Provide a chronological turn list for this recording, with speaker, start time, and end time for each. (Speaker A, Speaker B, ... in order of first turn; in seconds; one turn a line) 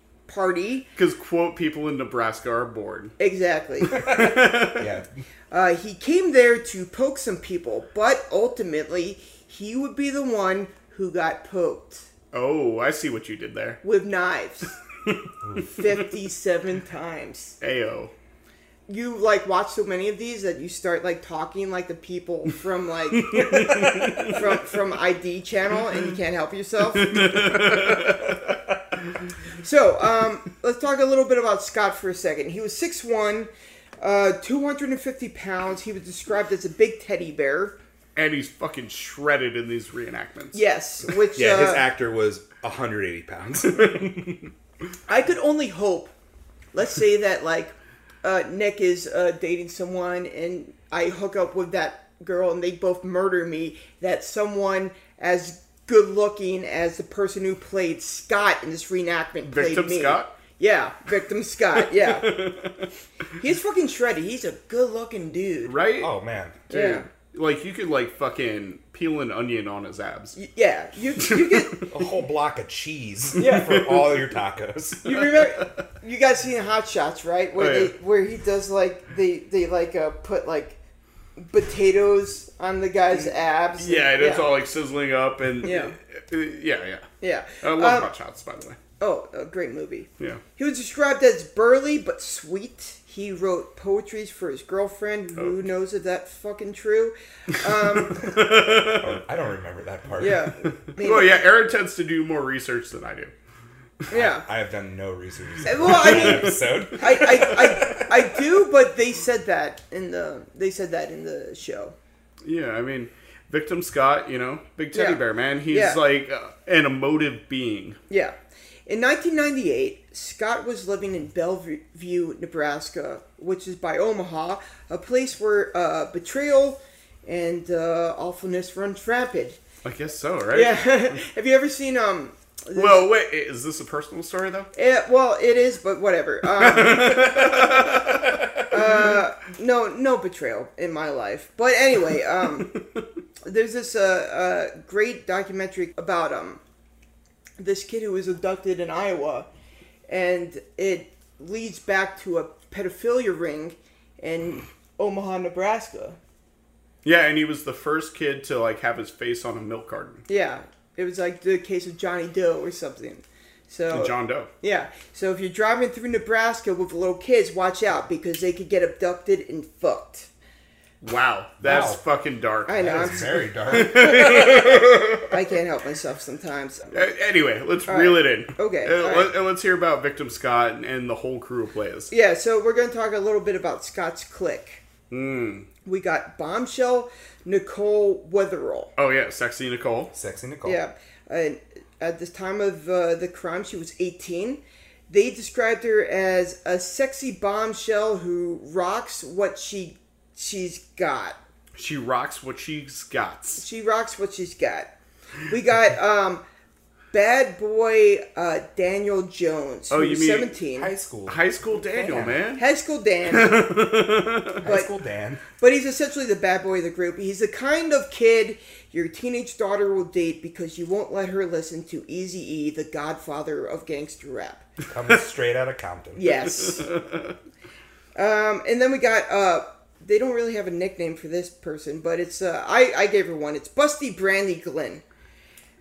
Speaker A: 0.3-0.9
Speaker B: 1.0-3.1
Speaker A: 3.2-4.2
Speaker C: 4.0-5.1
Speaker B: 4.0-4.9
Speaker A: 5.5-12.1
Speaker B: 12.3-13.8
Speaker A: 13.8-14.8
Speaker A: 15.6-17.6
Speaker B: 17.6-18.1
Speaker A: 18.9-27.6
Speaker B: 23.2-24.4
Speaker B: 27.0-28.4
Speaker A: 29.6-37.8
Speaker B: 38.2-40.6
Speaker A: 40.5-41.9
Speaker C: 41.4-44.5
Speaker A: 45.1-46.1
Speaker A: 46.7-62.5
Speaker B: 59.4-60.3
Speaker B: 61.8-62.9
Speaker A: 63.4-65.8
Speaker B: 65.7-66.1
Speaker C: 66.0-66.6
Speaker B: 66.7-70.4
Speaker A: 66.7-67.1
Speaker A: 70.4-71.9
Speaker B: 71.2-71.8
Speaker C: 71.9-75.2
Speaker A: 73.4-73.9
Speaker A: 75.0-80.8
Speaker B: 77.6-77.9
Speaker A: 81.4-84.6
Speaker B: 83.8-88.8
Speaker A: 85.6-86.0
Speaker A: 87.2-88.1
Speaker A: 89.0-98.3
Speaker B: 98.0-99.1
Speaker C: 98.9-100.5
Speaker A: 100.2-101.4
Speaker B: 100.6-103.3
Speaker A: 104.1-104.4
Speaker C: 104.1-108.2
Speaker A: 105.7-112.0
Speaker B: 105.8-106.6
Speaker B: 112.4-118.0
Speaker A: 114.9-116.0
Speaker A: 118.1-118.4
Speaker A: 118.9-129.6
Speaker B: 129.8-130.8
Speaker A: 130.5-133.1
Speaker B: 132.8-134.7
Speaker A: 134.8-138.1
Speaker B: 136.5-139.2
Speaker A: 138.7-142.8
Speaker A: 143.4-146.6
Speaker A: 147.6-149.5
Speaker A: 150.1-156.2
Speaker B: 157.0-160.2
Speaker A: 160.3-170.3
Speaker B: 163.9-164.5
Speaker B: 171.0-175.3
Speaker C: 171.6-172.0
Speaker A: 172.7-177.0
Speaker C: 172.8-174.4
Speaker B: 176.9-182.1
Speaker A: 177.9-179.3
Speaker A: 182.1-184.8
Speaker B: 185.1-185.7
Speaker A: 185.8-188.9
Speaker B: 189.0-190.1
Speaker C: 190.1-190.8
Speaker A: 190.6-201.4
Speaker B: 201.8-203.6
Speaker A: 203.6-204.9
Speaker A: 205.5-206.4
Speaker A: 207.1-210.9
Speaker B: 209.9-210.6
Speaker C: 210.8-212.4
Speaker B: 211.3-212.6
Speaker A: 212.6-213.7
Speaker B: 213.3-214.6
Speaker C: 214.6-215.4
Speaker A: 214.6-214.9
Speaker A: 215.6-224.7
Speaker C: 224.9-226.4
Speaker A: 226.2-226.9
Speaker B: 226.8-227.2
Speaker A: 228.2-235.0